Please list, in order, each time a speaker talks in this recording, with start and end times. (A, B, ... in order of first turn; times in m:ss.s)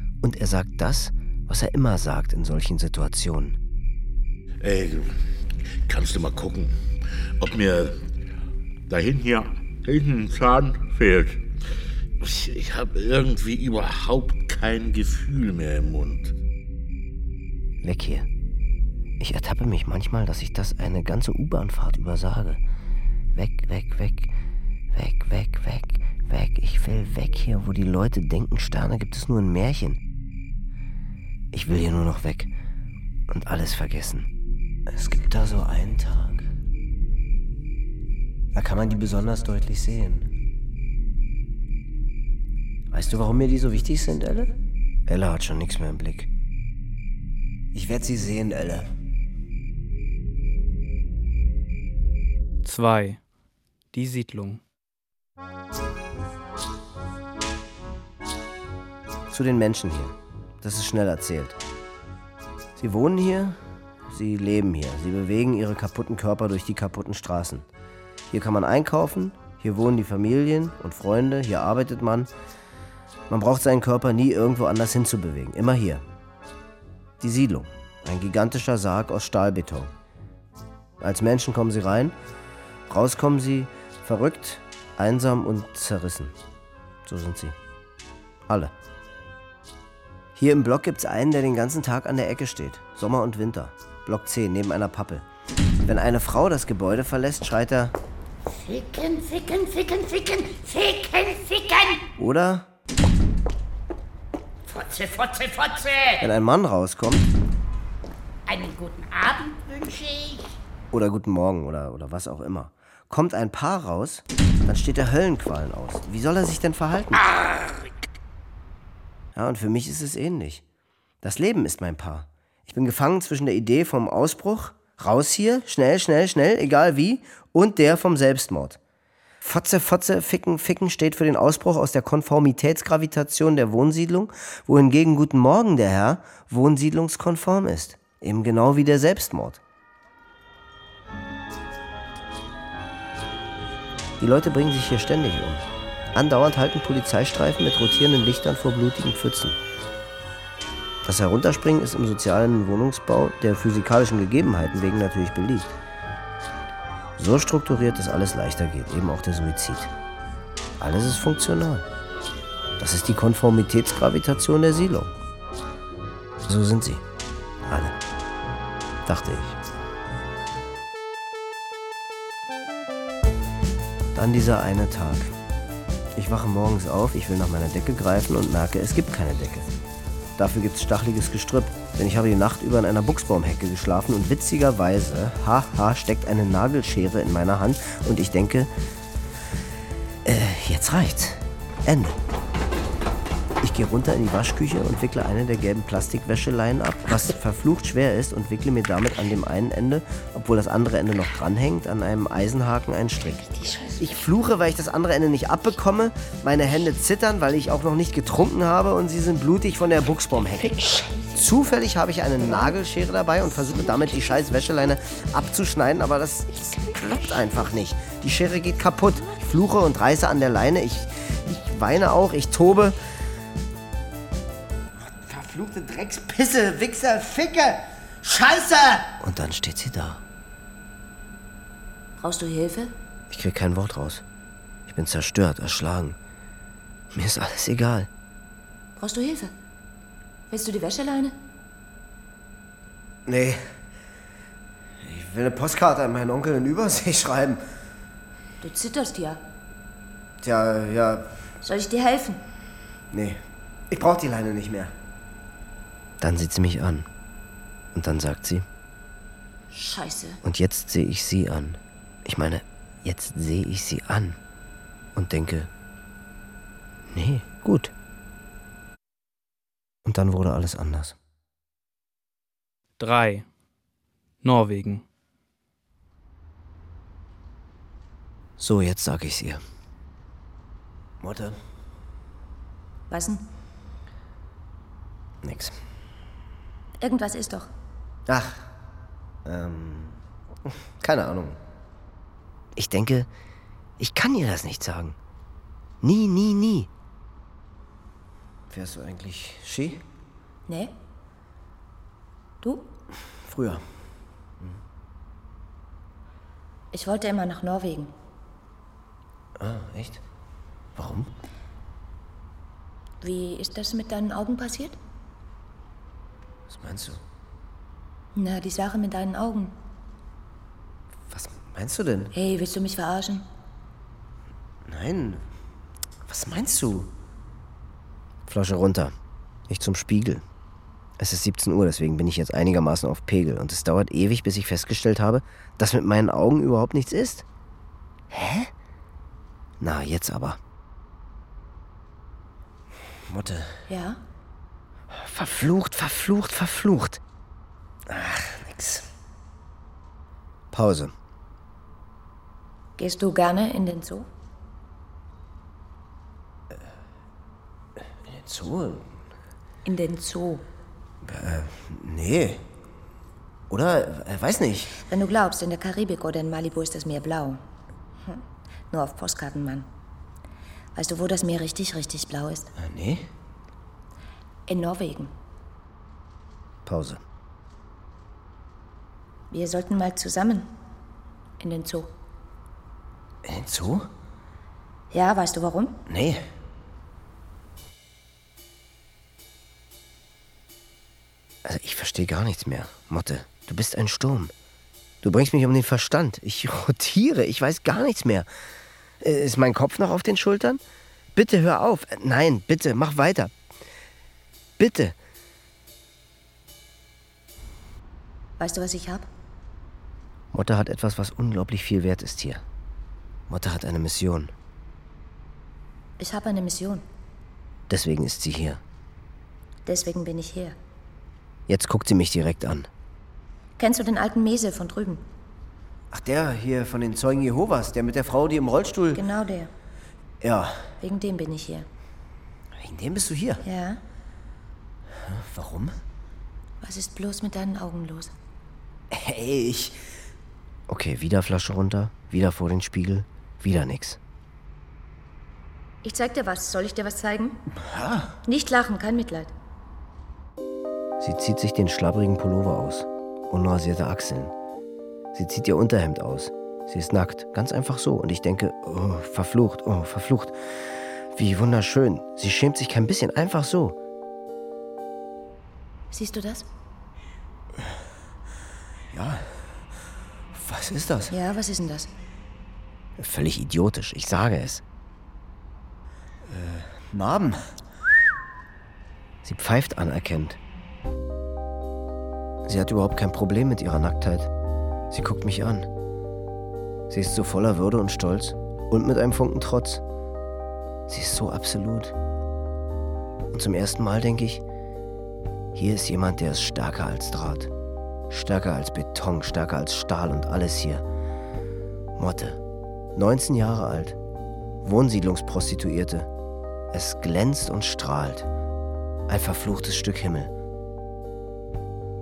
0:00.2-0:03.6 A
0:04.6-0:05.2 B
0:05.8-0:06.7 B
0:07.4-0:08.1 B
0:08.9-0:11.5 B
0:12.2-0:16.4 B
0:17.8-0:18.3 A
0:19.2-0:22.6 A
0:23.3-0:24.3 A
0:24.9-0:30.0 A
0:31.5-0:32.5 A
0:33.3-0:34.3 A
0:34.9-0:36.5 A
0:38.5-0:40.3 A
0:42.9-0:44.5 A
0:45.1-0:46.3 A
0:47.7-0:48.9 A
0:52.6-0:53.2 C
0:53.9-0:54.6 C
0:59.3-1:01.6 A
1:02.8-1:07.7 A
1:08.3-1:12.3 A
1:13.3-1:16.0 A
1:17.2-1:19.9 A
1:21.0-1:22.1 A
1:22.9-1:26.3 A
1:27.0-1:27.6 A
1:28.5-1:28.7 A
1:30.4-1:35.2 A
1:35.8-1:38.0 A
1:38.5-1:42.0 D
1:42.2-1:42.7 A
1:44.6-1:46.2 D
1:46.2-1:47.3 A
1:48.4-1:50.5 D
1:50.9-1:57.2 A
1:59.3-2:00.6 A
2:01.2-2:08.8 A
2:09.4-2:19.6 A
2:24.2-2:29.6 A
2:31.0-2:35.7 A
2:37.2-2:39.9 A
2:40.8-2:41.9 A
2:42.8-2:45.1 A
2:46.4-2:47.0 A
2:47.7-2:48.0 A
2:49.0-2:49.6 A
2:54.1-2:55.3 A
2:56.2-2:59.7 A
3:00.4-3:08.7 A
3:10.2-3:12.2 A
3:13.6-3:23.4 A
3:24.0-3:43.0 A
3:30.9-3:31.3 D
3:45.0-3:50.2 A
3:52.2-3:52.9 E
3:53.3-3:54.2 A
3:54.9-3:56.2 A
3:57.1-3:58.1 A
3:59.0-3:59.5 E
4:00.5-4:01.3 E
4:03.2-4:03.7 A
4:05.0-4:07.6 A
4:08.6-4:09.4 E
4:10.4-4:11.3 A
4:11.6-4:12.4 E
4:13.1-4:14.9 A
4:16.2-4:17.1 A
4:17.9-4:18.6 A
4:19.7-4:20.4 E
4:20.4-4:24.4 A
4:25.1-4:25.7 A
4:27.1-4:27.9 A
4:30.0-4:31.2 A
4:33.0-4:33.5 C
4:34.4-4:35.0 C
4:38.6-4:39.6 A
4:41.2-4:41.6 A
4:43.1-4:43.4 E
4:45.4-4:45.8 A
4:47.0-4:47.7 E
4:48.3-4:48.7 A
4:49.4-4:51.6 A
4:52.7-4:53.3 A
4:54.0-4:55.2 A
4:56.0-4:56.9 A
4:58.7-5:00.0 A
5:00.7-5:01.0 E
5:02.6-5:02.9 E
5:03.4-5:03.8 A
5:06.9-5:08.1 E
5:09.6-5:10.2 A
5:10.9-5:11.3 A
5:13.2-5:15.0 E
5:16.7-5:17.2 A
5:18.3-5:19.8 E
5:21.3-5:22.3 A
5:22.3-5:23.4 E
5:24.8-5:25.4 A
5:26.2-5:27.1 A
5:28.5-5:29.1 A
5:29.7-5:30.4 A
5:31.2-5:37.4 A
5:38.3-5:38.7 A
5:39.8-5:40.6 A
5:43.2-5:43.8 A
5:43.9-5:44.2 E
5:45.1-5:47.2 A
5:48.1-5:49.1 A
5:50.7-5:51.1 A
5:53.0-5:54.3 E
5:58.2-5:59.2 A
5:59.8-6:00.6 E
6:01.2-6:02.6 A
6:03.7-6:04.9 A
6:05.0-6:07.6 E
6:08.2-6:09.9 E
6:10.9-6:12.7 E
6:12.8-6:13.3 A
6:14.7-6:15.3 E
6:16.8-6:17.2 A
6:19.5-6:20.7 E
6:21.6-6:22.1 E
6:23.4-6:24.1 A
6:25.1-6:26.0 E
6:26.1-6:26.4 A
6:31.6-6:34.5 A
6:35.2-6:38.5 A
6:39.2-6:40.8 A
6:41.3-6:43.5 A
6:44.8-6:45.2 A
6:48.6-6:49.2 E
6:50.5-6:52.6 A
6:53.5-6:54.5 A
6:56.2-6:57.0 E
6:57.9-6:58.8 A
6:59.8-7:00.8 E
7:01.7-7:02.9 A
7:03.8-7:05.2 E
7:06.1-7:09.2 A
7:09.1-7:09.7 E
7:10.4-7:10.9 A
7:11.0-7:11.9 E
7:12.8-7:13.6 A
7:13.6-7:14.0 E
7:15.1-7:16.0 A
7:16.8-7:18.3 E
7:19.1-7:20.0 A
7:20.9-7:24.2 A
7:26.0-7:27.6 E
7:27.7-7:28.4 A
7:28.4-7:29.5 E
7:31.2-7:34.5 A
7:35.3-7:44.0 A
7:46.1-7:46.7 E
7:49.1-7:49.8 A
7:50.5-7:51.3 A
7:51.3-7:52.1 E
7:53.2-7:54.8 A
7:56.4-7:57.6 A
7:59.4-8:00.6 A
8:02.6-8:04.5 A
8:05.1-8:05.9 A
8:07.1-8:10.0 A
8:11.1-8:12.1 A
8:13.5-8:14.6 A
8:15.7-8:17.7 A
8:18.3-8:21.0 A
8:22.2-8:22.6 A
8:23.1-8:24.2 A
8:24.8-8:26.3 A
8:26.9-8:28.5 A
8:29.3-8:30.5 A